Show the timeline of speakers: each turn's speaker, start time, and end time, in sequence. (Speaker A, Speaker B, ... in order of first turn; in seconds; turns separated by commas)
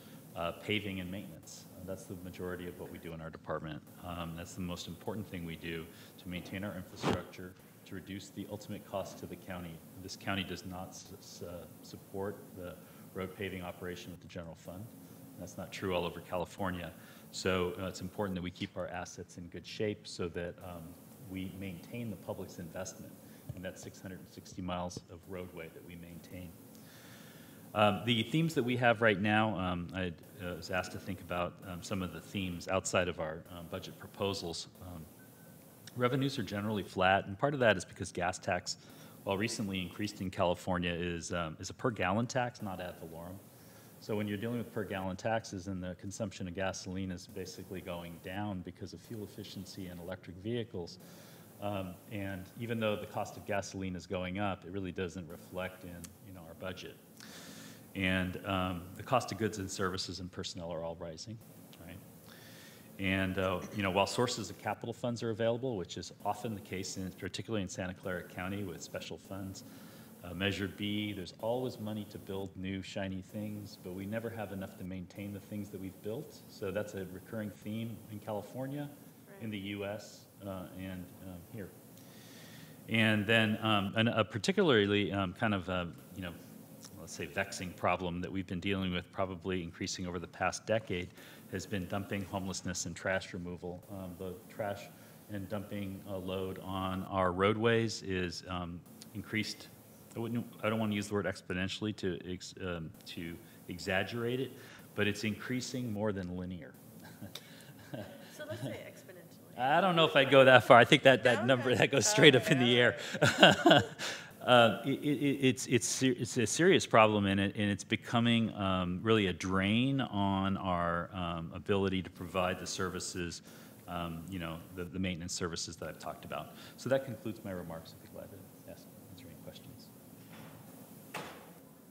Speaker A: 0.3-26.6, Speaker A: 27.7-35.1, Speaker A: 35.9-43.4, Speaker A: 44.0-51.0, Speaker A: 51.6-57.0, Speaker A: 57.9-62.0, Speaker A: 63.0-69.6, Speaker A: 70.2-81.7, Speaker B: 79.3-79.5, Speaker A: 82.9-86.4, Speaker A: 86.9-106.8, Speaker B: 108.3-110.4, Speaker A: 109.5-129.9, Speaker B: 111.2-113.0